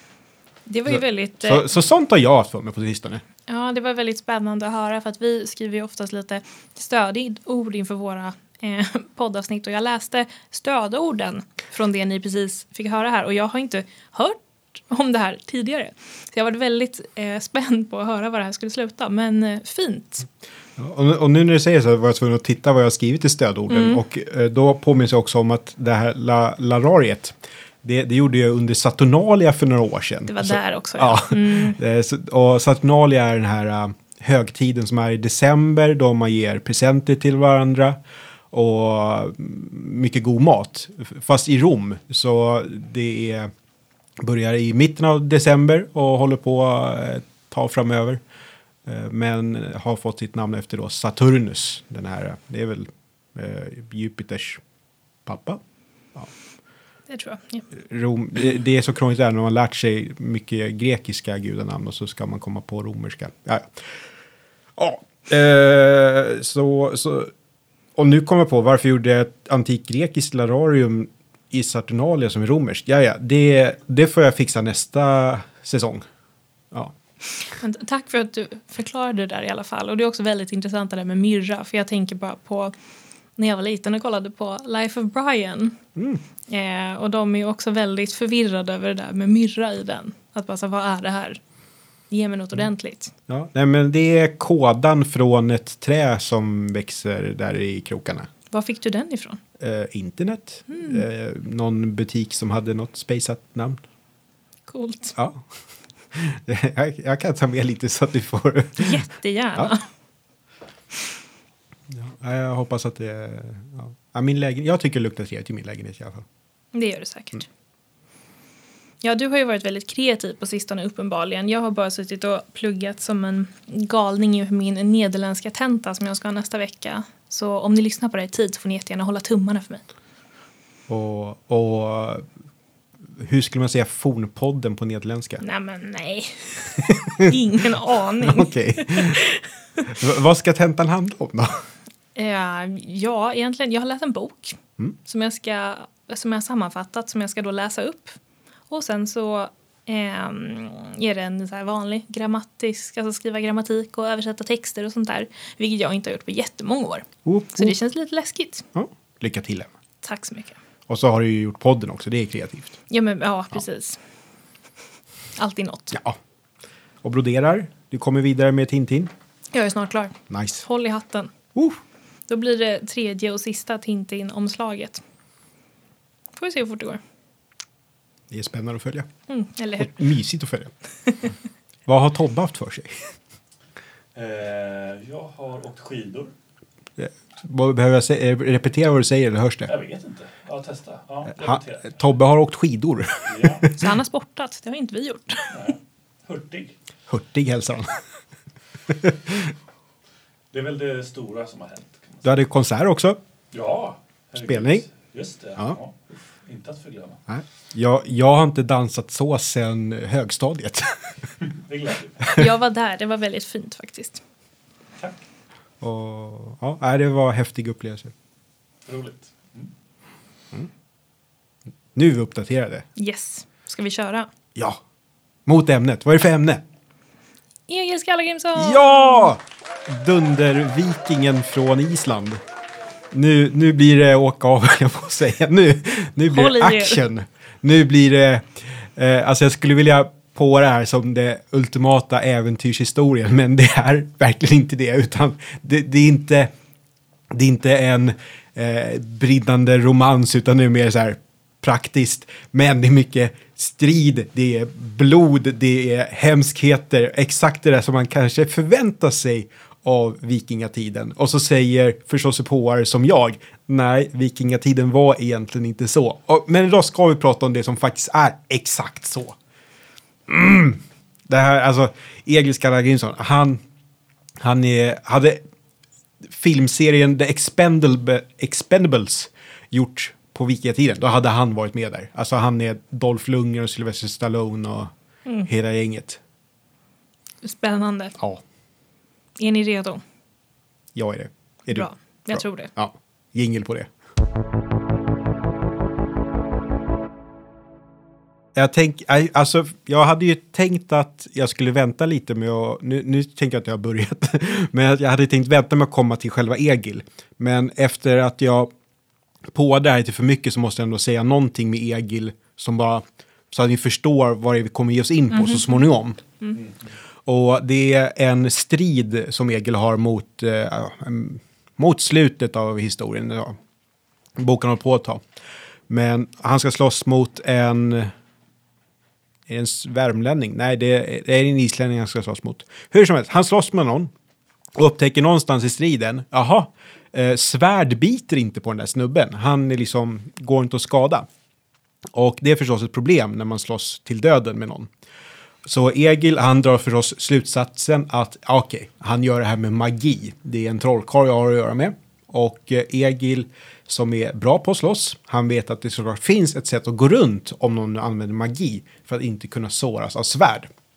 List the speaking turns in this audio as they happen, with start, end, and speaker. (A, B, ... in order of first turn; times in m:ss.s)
0:00.6-0:01.6 A
0:00.8-0:03.2 B
0:03.5-0:20.3 A
0:20.8-0:38.0 B
0:23.7-0:24.0 A
0:30.3-0:31.8 A
0:38.5-0:43.5 B
0:44.2-0:48.2 B
0:48.8-0:54.6 B
0:55.2-0:55.6 B
0:57.1-0:57.6 A
0:57.8-1:03.7 B
1:04.8-1:07.3 B
1:08.0-1:16.1 B
1:17.6-1:22.7 A
1:23.4-1:25.8 A
1:26.0-1:26.2 B
1:26.5-1:31.4 A
1:32.1-1:33.1 A
1:33.3-1:38.3 B
1:38.5-1:39.4 A
1:39.6-1:43.8 B
1:40.7-1:41.0 A
1:44.7-1:45.1 A
1:45.1-1:45.4 B
1:46.1-1:49.0 B
1:48.8-1:49.8 A
1:51.9-1:56.2 B
1:56.7-1:57.4 A
1:59.0-2:09.8 A
2:10.9-2:12.2 B
2:13.2-2:15.4 B
2:15.4-2:19.9 A
2:16.8-2:17.3 B
2:18.2-2:19.2 B
2:19.8-2:21.6 B
2:22.2-2:28.2 A
2:28.7-2:38.7 A
2:37.2-2:37.7 B
2:38.7-2:39.7 B
2:40.0-2:40.6 A
2:40.9-2:42.7 B
2:42.9-2:44.0 A
2:45.4-2:46.0 A
2:45.9-2:46.2 B
2:47.0-2:49.1 B
2:49.5-2:51.3 A
2:50.3-2:50.6 B
2:51.5-2:51.8 B
2:52.3-2:55.0 A
2:56.4-2:57.0 A
2:58.3-2:59.1 B
2:59.3-3:00.0 A
2:59.8-3:00.7 B
3:01.9-3:03.1 B
3:04.1-3:06.3 C
3:07.0-3:09.7 B
3:09.7-3:12.0 C
3:11.3-3:13.9 B
3:13.3-3:13.7 C
3:13.8-3:15.6 A
3:15.5-3:16.7 C
3:17.1-3:18.0 B
3:18.9-3:19.5 B
3:20.5-3:22.2 C
3:22.2-3:23.2 B
3:23.5-3:27.2 C
3:24.4-3:24.8 B
3:27.3-3:31.0 B
3:31.4-3:32.3 C
3:32.2-3:32.5 B
3:32.3-3:34.2 A
3:35.8-3:38.1 B
3:38.8-3:39.7 C
3:41.9-3:42.8 B
3:43.0-3:44.3 A
3:45.4-3:46.6 B
3:47.7-3:49.3 A
3:48.6-3:52.4 B
3:53.1-4:06.5 B
3:56.3-3:57.0 A
4:07.3-4:29.4 B
4:30.3-4:33.6 B
4:34.4-4:35.4 B
4:36.3-4:44.9 B
4:45.4-4:46.2 B
4:47.4-4:48.2 A
4:49.4-4:50.0 A
4:50.9-4:53.9 B
4:51.7-4:52.7 A
4:58.5-5:08.7 B
5:09.5-5:16.2 B
5:15.3-5:15.7 A
5:17.2-5:23.6 B
5:24.4-5:25.2 B
5:25.9-5:28.1 B
5:29.5-5:34.1 B
5:34.8-5:41.3 B
5:42.1-5:44.9 B
5:45.6-6:00.7 B